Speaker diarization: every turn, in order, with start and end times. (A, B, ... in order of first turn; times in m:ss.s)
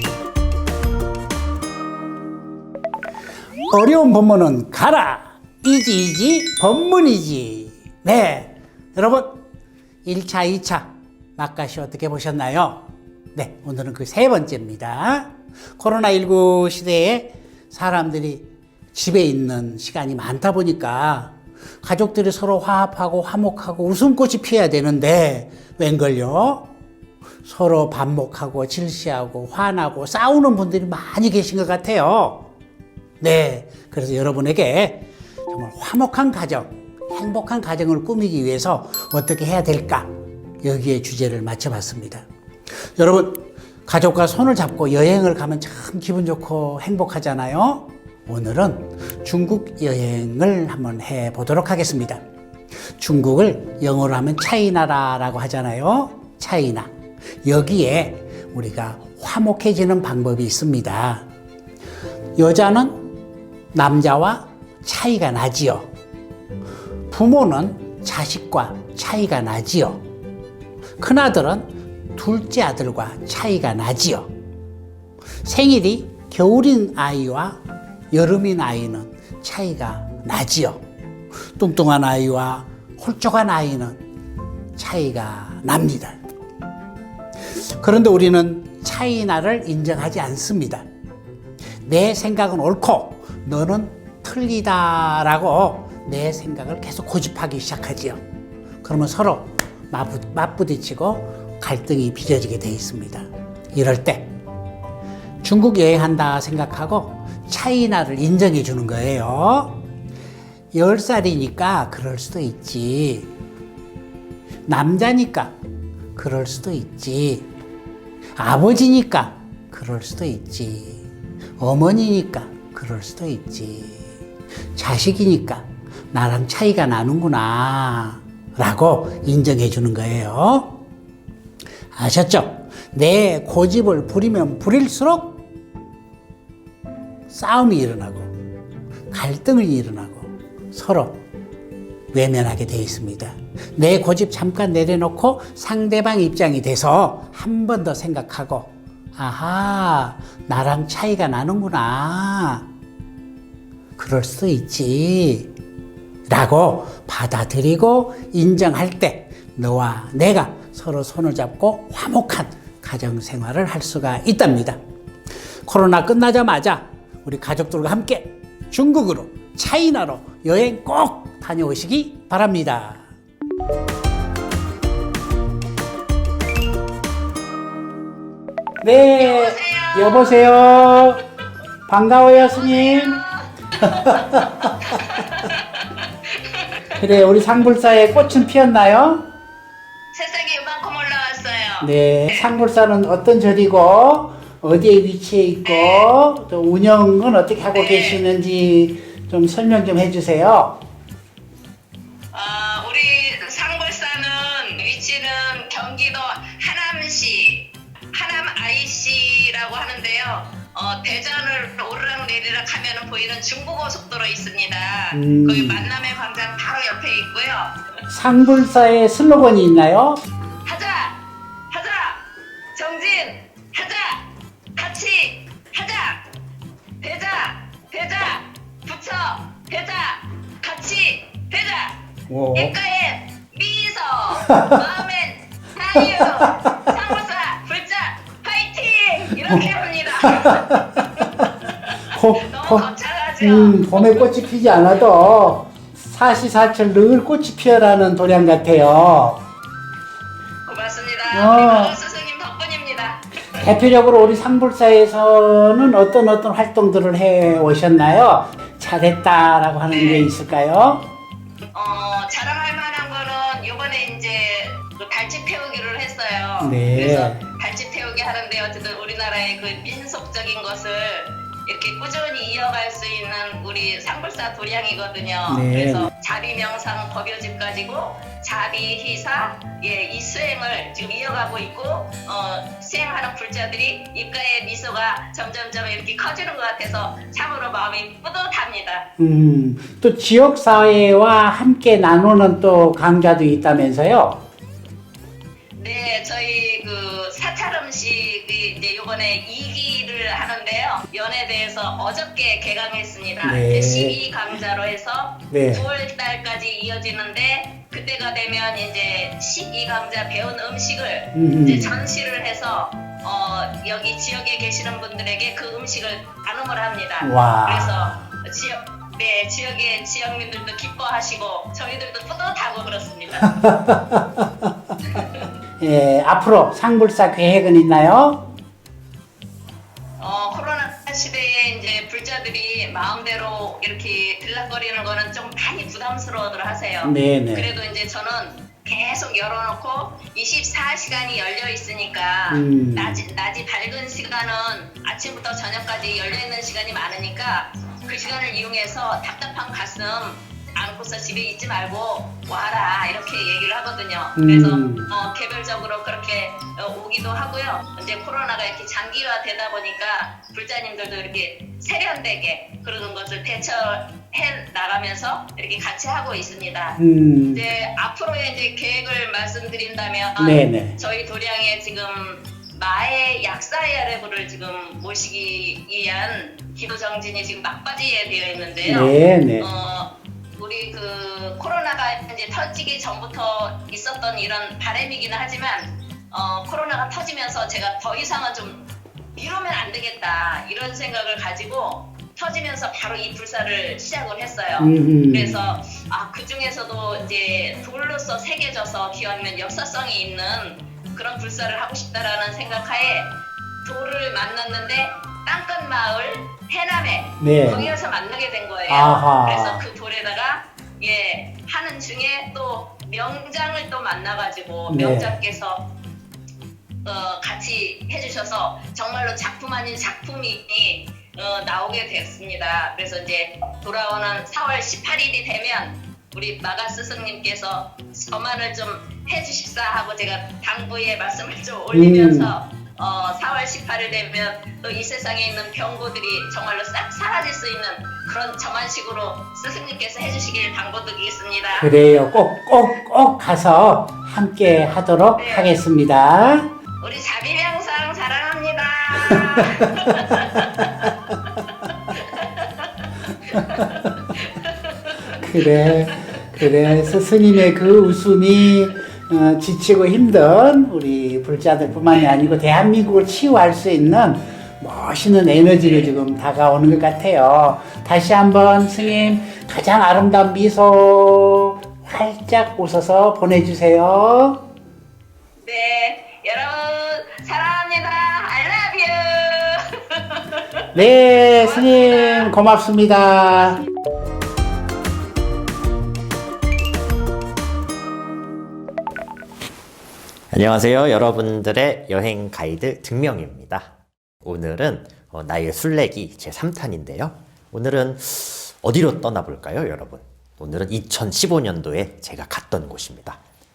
0:03.7-0:09.4 A
0:10.0-0:26.7 A
0:27.4-0:32.5 A
0:33.2-0:40.1 A
0:40.6-0:42.3 A
0:43.0-0:52.2 A
0:53.0-0:56.9 A
0:57.4-1:01.2 A
1:02.4-1:03.1 A
1:03.7-1:05.9 A
1:07.1-1:10.0 A
1:11.0-1:14.3 A
1:15.4-1:17.6 A
1:18.1-1:20.8 A
1:21.6-1:24.0 A
1:24.8-1:26.2 A
1:27.5-1:30.8 A
1:31.8-1:38.2 A
1:38.8-1:44.3 A
1:45.4-1:49.8 A
1:50.7-1:53.3 A
1:54.7-1:55.5 A
1:56.1-1:57.5 A
1:58.4-2:04.2 A
2:04.7-2:10.8 A
2:11.9-2:15.4 A
2:17.3-2:18.3 A
2:19.1-2:21.2 A
2:22.1-2:32.6 A
2:34.0-2:35.5 A
2:36.3-2:44.8 A
2:45.6-2:53.1 A
2:58.8-3:01.2 A
2:59.2-3:00.5 B
3:01.9-3:03.2 A
3:02.5-3:06.7 B
3:03.8-3:05.2 A
3:07.0-3:09.2 A
3:10.1-3:12.4 B
3:11.8-3:20.8 A
3:15.6-3:16.1 B
3:17.7-3:18.2 B
3:22.3-3:37.7 B
3:35.1-3:35.9 A
3:38.1-3:40.2 A
3:40.6-3:41.1 B
3:41.7-3:42.2 B
3:42.8-3:44.2 B
3:44.8-3:46.2 B
3:47.0-3:51.9 B
3:52.3-3:52.7 A
3:52.5-4:04.5 B
3:54.4-3:54.8 A
3:56.0-3:56.9 A
4:00.2-4:01.5 A
4:02.1-4:02.9 A
4:03.4-4:09.4 A
4:10.6-4:13.2 B
4:11.3-4:11.9 A
4:13.6-4:21.0 A
4:19.9-4:20.3 B
4:21.7-4:49.0 B
4:26.6-4:27.4 A
4:35.5-4:36.1 A
4:49.2-4:54.4 A
4:55.8-5:23.5 B
5:03.4-5:04.2 A
5:05.5-5:05.8 A
5:11.3-5:11.9 A
5:17.2-5:18.3 A
5:23.4-5:24.7 A
5:25.1-5:25.4 B
5:25.8-5:28.4 A
5:30.2-6:07.0 B
5:37.0-5:37.7 A
5:42.5-5:43.2 A
5:54.4-5:55.1 A
6:07.0-6:07.6 A
6:07.5-6:28.8 B
6:10.4-6:10.9 A
6:18.8-6:19.7 A
6:29.3-6:43.3 B
6:34.8-6:35.6 A
6:43.8-6:55.8 B
6:47.4-6:47.9 A
6:48.9-6:49.8 A
6:54.9-6:55.3 A
6:57.0-7:21.9 B
7:11.9-7:12.5 A
7:21.8-7:26.7 A
7:25.4-7:25.7 B
7:27.0-7:31.5 B
7:29.2-7:31.1 A
7:32.1-7:32.9 B
7:33.5-7:36.0 B
7:33.5-7:34.2 A
7:35.3-7:54.6 A
7:55.6-8:00.6 B
8:00.9-8:03.8 A
8:01.6-8:02.5 B
8:10.5-8:13.9 C
8:14.4-8:23.4 C